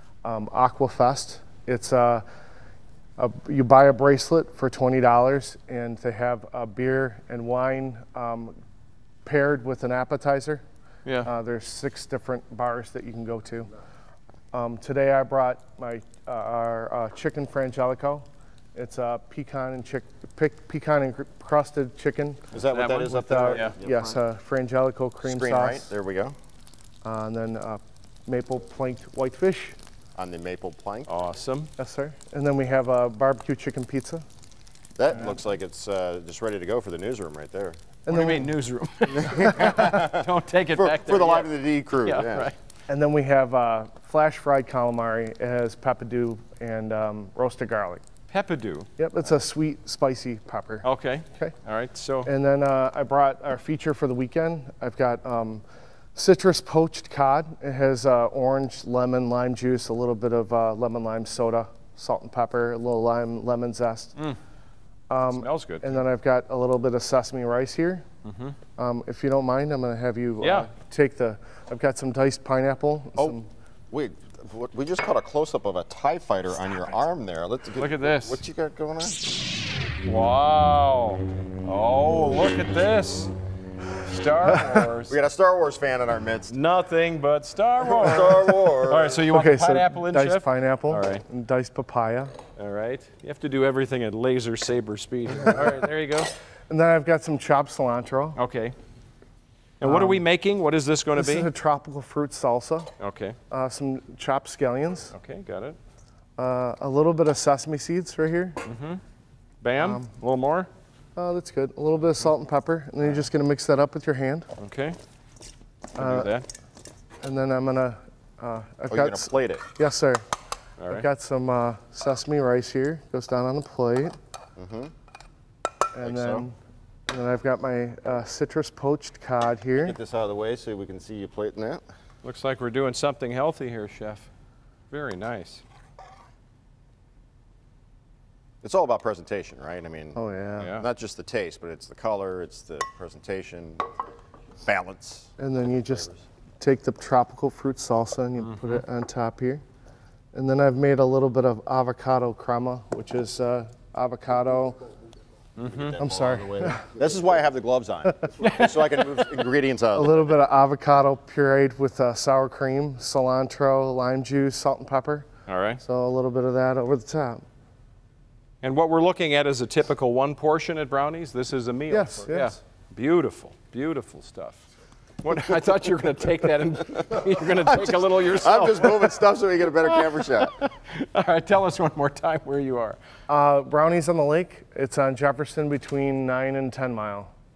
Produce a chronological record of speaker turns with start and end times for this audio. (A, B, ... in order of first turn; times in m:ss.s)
0:00.2-0:02.2 A
0:03.2-0:08.5 A
0:09.2-0:10.6 A
0:11.0-0:11.3 B
0:11.2-0:13.7 A
0:14.5-0:22.5 A
0:22.5-0:24.2 C
0:22.7-0:23.7 B
0:23.0-0:25.9 A
0:25.2-0:26.4 C
0:27.0-0:29.8 A
0:30.2-0:31.1 C
0:31.1-0:31.7 B
0:31.8-0:34.2 A
0:35.0-0:37.8 C
0:38.0-0:38.5 A
0:38.1-0:42.5 B
0:39.1-0:42.5 C
0:42.9-0:48.0 A
0:48.3-0:48.9 B
0:49.0-0:51.5 A
0:50.8-0:52.3 B
0:52.2-0:55.6 A
0:56.1-1:04.2 A
1:05.1-1:08.0 A
1:05.3-1:06.0 B
1:08.2-1:08.6 B
1:08.8-1:13.5 A
1:10.4-1:10.7 B
1:13.9-1:19.3 C
1:17.8-1:18.4 B
1:20.0-1:23.3 B
1:24.0-1:25.2 B
1:25.1-1:26.5 C
1:26.5-1:31.2 B
1:27.8-1:29.2 C
1:29.3-1:32.3 A
1:32.6-1:36.3 B
1:36.7-1:38.4 A
1:38.4-1:38.7 B
1:39.8-1:41.5 B
1:39.8-1:40.2 A
1:41.1-1:42.9 A
1:43.0-1:43.4 B
1:43.5-1:45.1 A
1:45.1-1:45.8 B
1:46.4-1:48.6 A
1:48.6-1:49.0 B
1:49.6-1:50.7 B
1:49.8-1:50.1 A
1:51.2-1:54.5 A
1:54.6-1:55.0 B
1:55.9-1:56.4 B
1:56.0-1:56.3 A
1:57.2-2:00.2 A
1:58.9-1:59.7 C
2:00.8-2:01.1 B
2:00.9-2:04.2 A
2:04.6-2:04.9 C
2:05.9-2:06.6 A
2:06.0-2:06.4 C
2:07.1-2:10.0 A
2:09.8-2:11.8 C
2:12.2-2:14.3 B
2:14.9-2:15.6 B
2:18.6-2:20.2 C
2:20.2-2:20.7 A
2:20.6-2:20.8 B
2:20.7-2:23.8 C
2:24.6-2:25.3 C
2:25.4-2:29.6 A
2:28.4-2:28.8 B
2:30.3-2:34.8 A
2:35.6-2:36.0 B
2:35.6-2:40.4 C
2:36.0-2:36.8 A
2:38.4-2:39.1 B
2:39.9-2:45.2 A
2:45.5-2:45.8 B
2:45.8-2:47.4 A
2:48.6-2:54.7 B
2:51.9-2:52.6 A
2:55.2-2:59.2 B
2:57.8-3:00.6 C
2:59.8-3:03.0 B
3:03.3-3:07.3 A